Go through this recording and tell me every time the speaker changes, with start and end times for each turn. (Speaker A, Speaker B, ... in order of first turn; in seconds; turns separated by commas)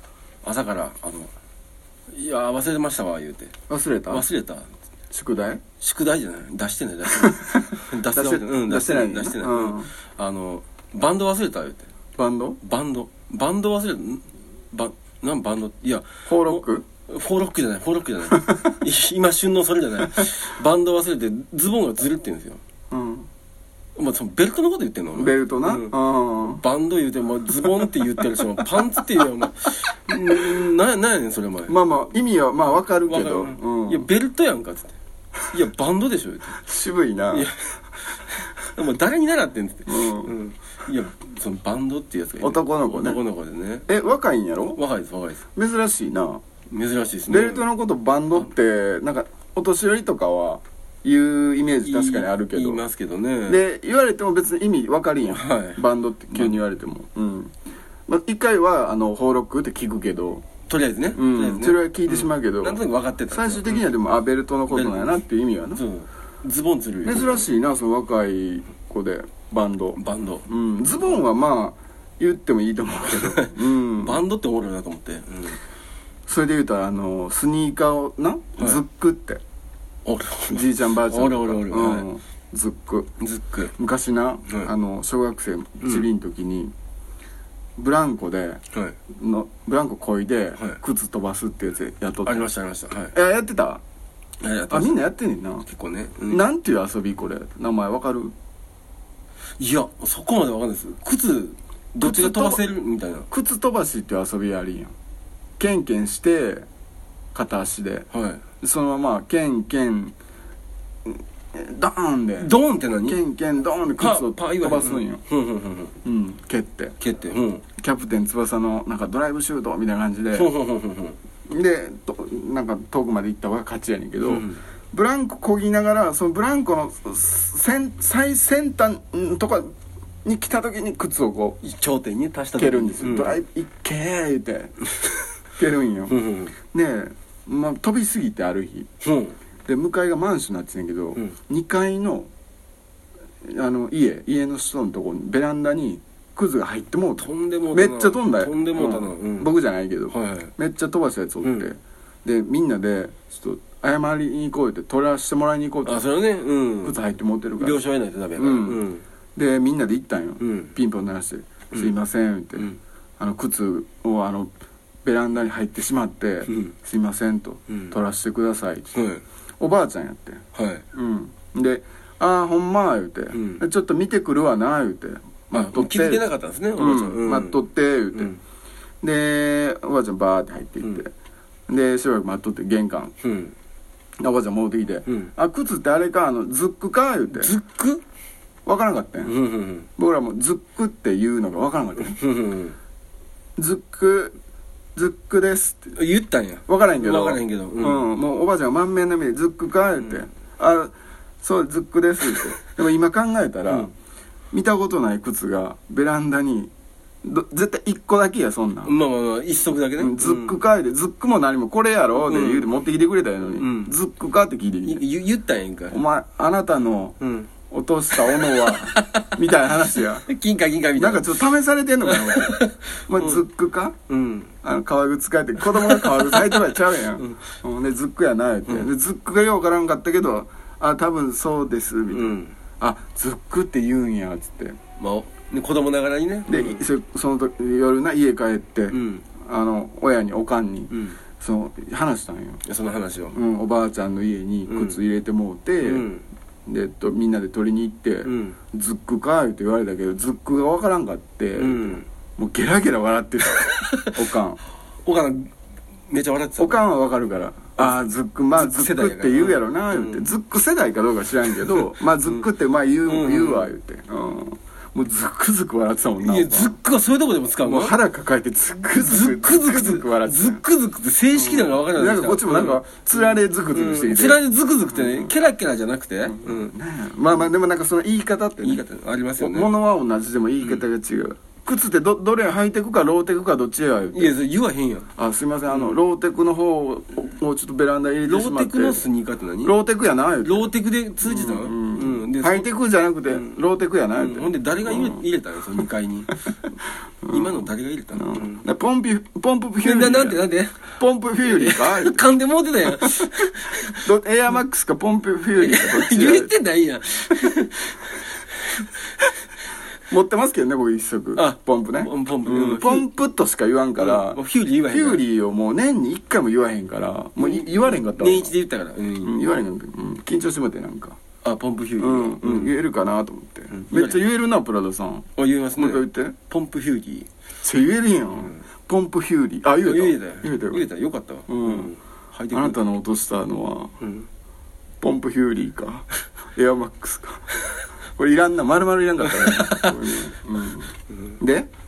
Speaker A: 0.4-1.3, Speaker A: 2.1-3.5, Speaker B: 3.7-4.3, Speaker A: 4.1-4.7, Speaker B: 5.1-5.6, Speaker A: 5.8-11.8, Speaker B: 7.1-9.9, Speaker B: 12.2-12.6, Speaker A: 12.6-22.6, Speaker B: 16.3-16.8, Speaker B: 18.3-18.7, Speaker B: 22.9-23.3, Speaker A: 23.9-31.8, Speaker B: 25.1-26.6, Speaker B: 31.7-34.1, Speaker A: 33.1-35.0, Speaker A: 35.5-36.5, Speaker B: 36.5-37.5, Speaker A: 38.5-43.9, Speaker B: 39.9-40.3, Speaker B: 42.4-43.2, Speaker B: 43.9-44.8, Speaker A: 44.8-45.4, Speaker B: 45.5-46.4, Speaker A: 46.7-47.7, Speaker B: 47.3-52.8, Speaker A: 51.8-53.6, Speaker B: 53.5-57.5, Speaker A: 55.3-55.8, Speaker B: 58.1-60.5, Speaker A: 60.7-63.9, Speaker B: 61.1-65.8, Speaker A: 64.7-65.2, Speaker A: 65.8-67.5, Speaker B: 67.0-74.2, Speaker A: 70.0-70.4, Speaker A: 73.1-75.6, Speaker B: 76.3-79.4, Speaker A: 80.0-82.0, Speaker B: 80.5-83.1, Speaker A: 83.2-83.7, Speaker B: 83.8-86.7, Speaker B: 87.8-88.6, Speaker B: 89.1-93.8, Speaker A: 92.2-93.1, Speaker A: 94.4-95.0, Speaker B: 94.7-95.7, Speaker A: 95.6-96.4, Speaker B: 96.3-98.3, Speaker A: 99.6-103.3, Speaker B: 102.0-102.6, Speaker B: 103.3-104.9, Speaker B: 105.6-106.7, Speaker B: 107.3-108.1, Speaker A: 108.1-108.4, Speaker B: 108.6-110.1, Speaker B: 111.0-112.5, Speaker A: 112.4-113.2, Speaker B: 113.0-115.2, Speaker A: 114.0-115.9, Speaker B: 116.0-116.9, Speaker A: 117.0-117.6, Speaker B: 117.8-120.5, Speaker A: 120.3-121.2, Speaker B: 121.5-131.6, Speaker A: 124.2-124.6, Speaker A: 131.6-133.4, Speaker B: 132.6-134.8, Speaker B: 135.6-136.2, Speaker A: 136.1-136.5, Speaker B: 136.7-138.9, Speaker A: 139.0-139.3, Speaker B: 139.7-142.3, Speaker B: 143.4-156.0, Speaker A: 147.2-149.5, Speaker A: 150.1-150.5, Speaker A: 155.8-157.0, Speaker B: 156.8-157.8, Speaker A: 157.6-159.0, Speaker B: 158.3-164.5, Speaker A: 160.4-160.7, Speaker B: 165.0-168.9, Speaker A: 166.5-166.7, Speaker A: 168.9-169.2, Speaker B: 169.6-170.4, Speaker A: 170.5-170.8, Speaker B: 170.9-178.3, Speaker A: 173.3-173.6, Speaker A: 175.5-177.6, Speaker B: 179.0-181.1, Speaker B: 181.7-183.1, Speaker A: 183.2-183.5, Speaker B: 184.2-187.5, Speaker A: 187.3-188.0, Speaker B: 188.6-189.3, Speaker A: 189.2-189.9, Speaker B: 190.0-192.2, Speaker A: 192.1-192.8, Speaker B: 193.6-194.3, Speaker B: 194.9-195.9, Speaker A: 195.9-198.1, Speaker B: 196.7-203.9, Speaker B: 204.5-206.7, Speaker B: 207.2-208.9, Speaker A: 208.8-210.6, Speaker B: 210.0-215.0, Speaker A: 212.1-212.7, Speaker A: 213.6-213.9, Speaker A: 214.8-216.0, Speaker B: 215.9-217.2, Speaker A: 217.2-217.5, Speaker B: 217.7-220.2, Speaker A: 218.2-219.4, Speaker A: 220.2-221.4, Speaker B: 221.0-223.9, Speaker A: 222.1-223.4, Speaker A: 224.1-224.5, Speaker B: 224.6-234.8, Speaker A: 225.7-227.4, Speaker A: 232.1-232.5, Speaker A: 235.0-236.8, Speaker B: 236.5-242.6, Speaker A: 238.9-239.2, Speaker A: 240.9-241.2, Speaker A: 242.7-243.4, Speaker B: 243.3-246.1, Speaker A: 244.7-245.0, Speaker A: 245.8-246.2, Speaker B: 246.7-254.6, Speaker A: 248.2-248.6, Speaker A: 251.6-252.1, Speaker A: 253.7-254.1, Speaker A: 255.0-255.5, Speaker A: 256.1-256.8, Speaker B: 256.6-266.8, Speaker A: 258.5-260.3, Speaker A: 261.7-262.4, Speaker A: 263.0-263.7, Speaker A: 266.2-267.9, Speaker B: 267.6-270.6, Speaker A: 268.9-276.7, Speaker B: 271.3-274.4, Speaker B: 274.9-275.3, Speaker B: 276.2-278.8, Speaker A: 278.6-279.7, Speaker B: 279.4-284.3, Speaker A: 284.1-285.1, Speaker B: 285.1-289.0, Speaker A: 285.7-285.9, Speaker A: 288.2-289.7, Speaker B: 289.6-290.7, Speaker A: 290.4-292.7, Speaker B: 291.2-295.2, Speaker A: 293.3-293.6, Speaker A: 294.1-296.4, Speaker B: 297.2-300.4, Speaker A: 297.3-298.6, Speaker A: 299.8-304.0, Speaker B: 301.0-302.3, Speaker B: 303.0-303.3, Speaker B: 304.0-306.5, Speaker A: 305.6-308.2, Speaker B: 310.1-318.5, Speaker A: 311.4-313.1, Speaker A: 314.0-315.2, Speaker A: 317.4-319.4, Speaker B: 319.2-321.2, Speaker A: 321.4-322.8, Speaker B: 322.0-326.4, Speaker A: 323.7-324.2, Speaker A: 325.4-327.3, Speaker B: 327.6-330.9, Speaker A: 329.8-332.8, Speaker B: 331.5-331.9, Speaker B: 332.5-333.9, Speaker A: 334.0-334.3, Speaker B: 335.0-337.5, Speaker B: 338.1-341.7, Speaker A: 339.2-340.3